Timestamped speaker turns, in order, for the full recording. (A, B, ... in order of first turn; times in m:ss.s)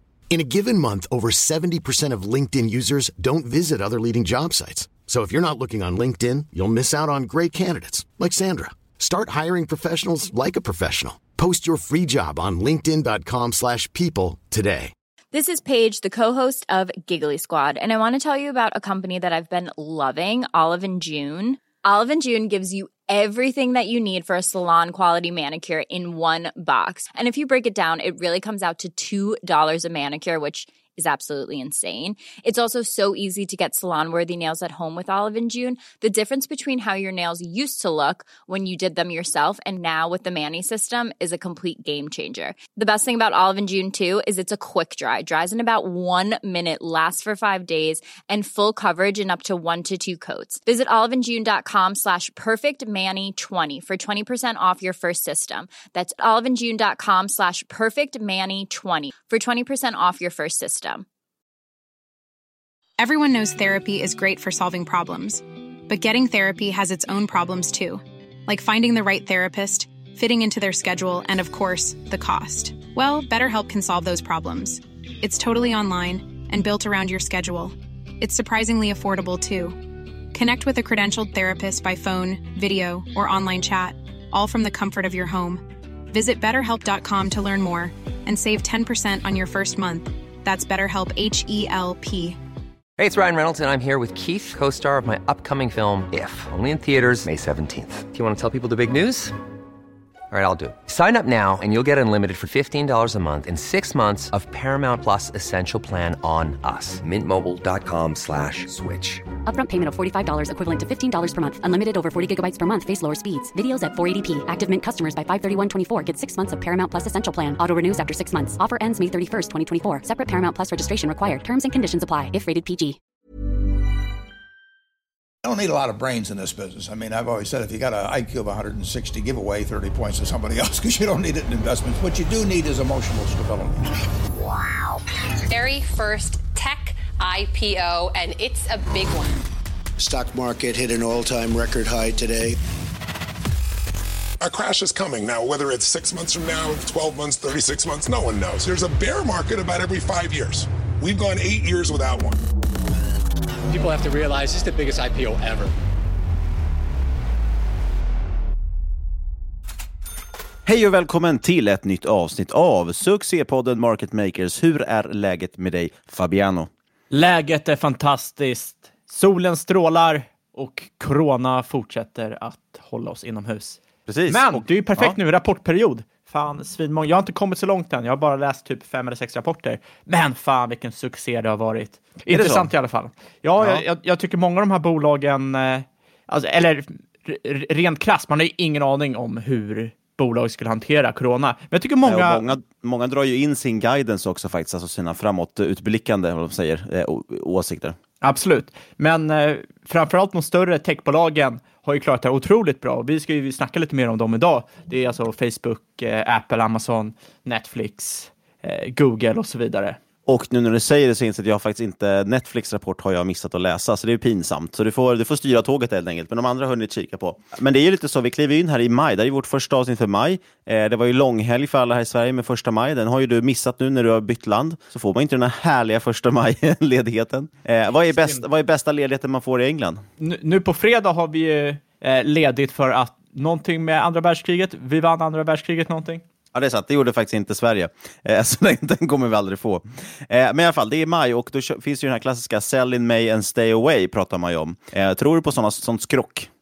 0:00.3-0:14.9 A
0:15.3-1:01.0 B
1:03.0-1:19.8 C
1:20.3-1:32.4 C
1:33.0-1:39.4 D
1:40.3-1:49.2 D
1:49.4-2:03.0 E
2:05.4-2:13.8 F
2:15.5-2:19.5 G
2:20.0-2:22.6 H
2:24.4-2:32.4 I
2:33.7-2:35.7 J
2:40.6-2:46.7 K
2:47.1-3:12.4 L
2:54.1-2:55.2 K
3:02.3-3:02.7 K
3:03.6-3:03.8 K
3:12.0-3:18.0 K
3:18.2-3:30.0 L
3:30.3-3:50.0 K
3:48.1-3:48.4 L
3:50.2-3:56.2 L
3:56.5-4:06.5 K